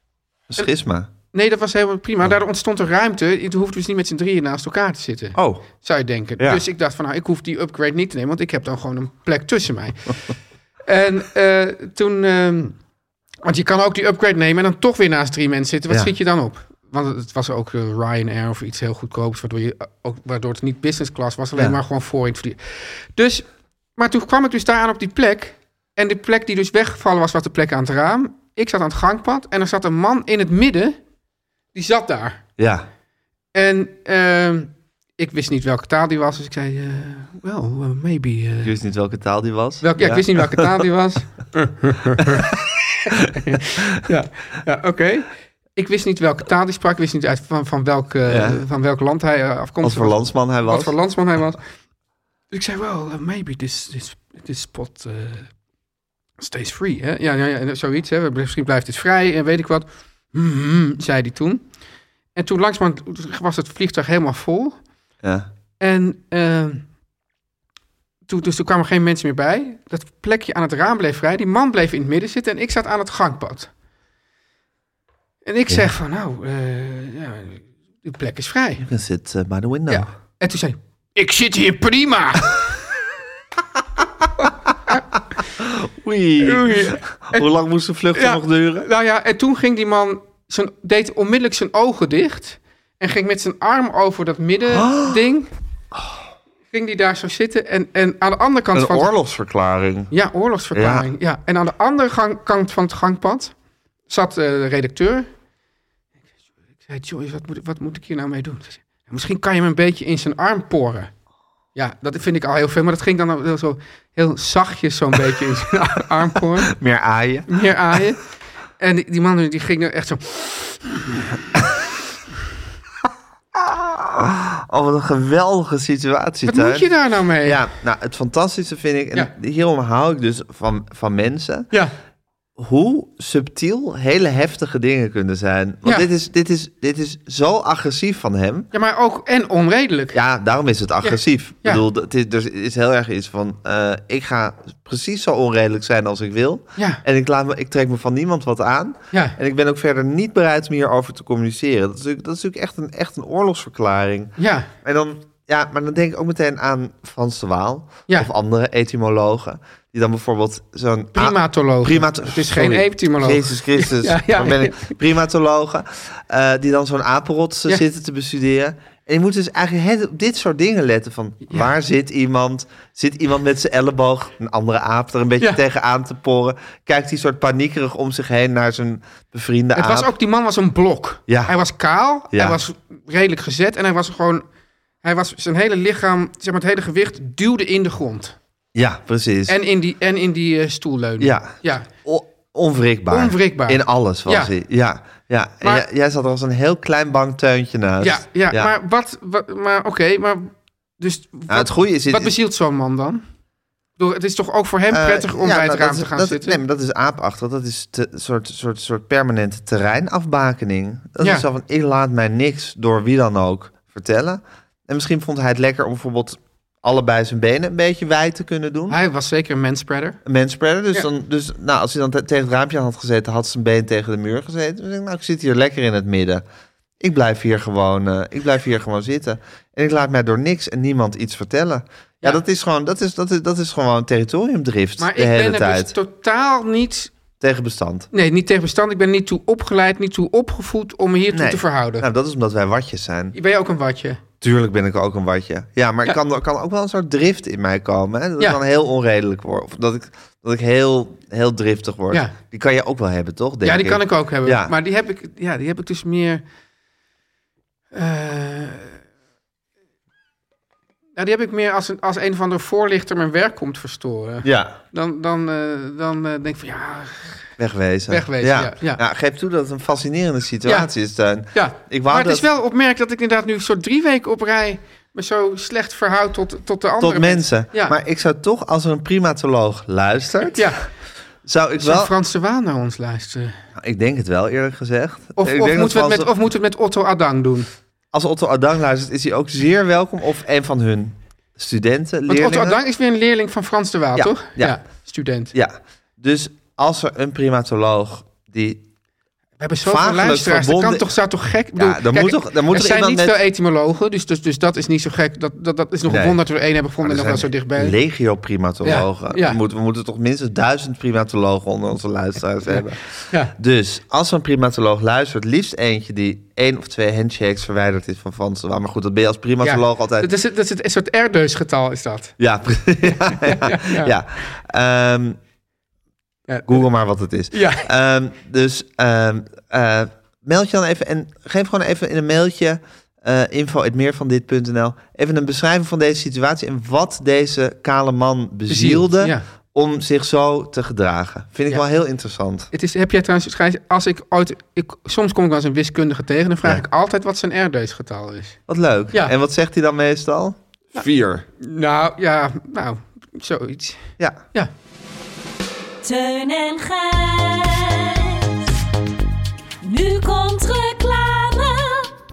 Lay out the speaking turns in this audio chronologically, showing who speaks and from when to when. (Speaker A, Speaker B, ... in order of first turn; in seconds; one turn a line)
Speaker A: 0.5-1.1
Speaker B: 1.3-10.2
Speaker A: 5.3-5.6
Speaker B: 10.8-12.8
Speaker B: 13.4-31.0
Speaker B: 31.7-32.4
Speaker A: 32.6-32.9
Speaker B: 33.5-38.7
Speaker A: 38.6-40.8
Speaker B: 39.8-51.6
Speaker A: 42.2-42.6
Speaker A: 48.3-48.6
Speaker A: 49.8-50.9
Speaker B: 52.5-55.5
Speaker B: 56.4-61.6
Speaker B: 62.3-64.8
Speaker A: 65.2-65.5
Speaker B: 65.8-66.8
Speaker B: 68.3-73.7
Speaker B: 75.4-78.8
Speaker A: 78.8-80.1
Speaker B: 79.9-82.6
Speaker B: 84.4-85.0
Speaker A: 85.6-88.9
Speaker B: 86.4-87.5
Speaker B: 88.1-95.5
Speaker A: 94.7-95.2
Speaker A: 95.9-96.2
Speaker B: 96.7-99.1
Speaker A: 98.7-100.1
Speaker B: 100.1-103.5
Speaker A: 100.7-101.1
Speaker B: 104.1-105.3
Speaker B: 106.8-111.1
Speaker B: 111.7-116.7
Speaker A: 116.7-118.0
Speaker B: 117.5-118.2
Speaker B: 118.8-121.4
Speaker A: 123.5-126.9
Speaker B: 126.5-127.6
Speaker A: 127.4-131.7
Speaker A: 132.6-138.7
Speaker B: 138.7-140.2
Speaker A: 140.1-180.1
Speaker B: 141.0-141.8
Speaker B: 154.4-154.7
Speaker B: 161.1-164.9
Speaker B: 179.7-184.4
Speaker A: 181.3-181.5
Speaker A: 182.3-182.6
Speaker B: 185.0-188.4
Speaker A: 188.7-189.6
Speaker B: 189.5-191.9
Speaker A: 191.2-198.7
Speaker B: 193.1-194.5
Speaker B: 198.0-203.2
Speaker A: 201.5-202.3
Speaker B: 204.0-206.6
Speaker A: 204.9-219.0
Speaker B: 211.2-211.4
Speaker B: 218.9-220.2
Speaker A: 220.2-226.4
Speaker A: 227.0-235.9
Speaker B: 235.0-237.1
Speaker A: 237.4-238.1
Speaker B: 238.1-242.1
Speaker A: 241.3-243.3
Speaker B: 243.3-244.2
Speaker A: 244.4-254.7
Speaker B: 253.6-256.4
Speaker B: 257.9-259.0
Speaker B: 261.1-267.5
Speaker A: 264.4-264.8
Speaker A: 267.6-272.4
Speaker B: 268.1-269.0
Speaker B: 271.5-277.9
Speaker A: 277.0-280.7
Speaker B: 280.5-280.8
Speaker A: 281.4-282.1
Speaker B: 281.8-283.6
Speaker A: 283.8-286.3
Speaker B: 285.4-287.7
Speaker A: 288.1-292.8
Speaker B: 292.3-295.5
Speaker A: 294.1-294.8
Speaker A: 295.5-298.8
Speaker B: 299.6-307.9
Speaker A: 299.8-301.0
Speaker A: 301.8-303.4
Speaker A: 306.1-306.4
Speaker A: 307.0-320.3
Speaker B: 308.8-309.6
Speaker B: 312.7-313.5
Speaker B: 319.6-322.3
Speaker A: 322.4-325.4
Speaker B: 323.0-324.1
Speaker B: 326.5-326.9
Speaker A: 326.7-342.7
Speaker B: 327.5-327.9
Speaker B: 338.7-339.4
Speaker B: 342.7-348.6
Speaker A: 348.7-351.4
Speaker B: 351.6-354.7
Speaker C: 356.0-358.8
Speaker C: 359.8-362.1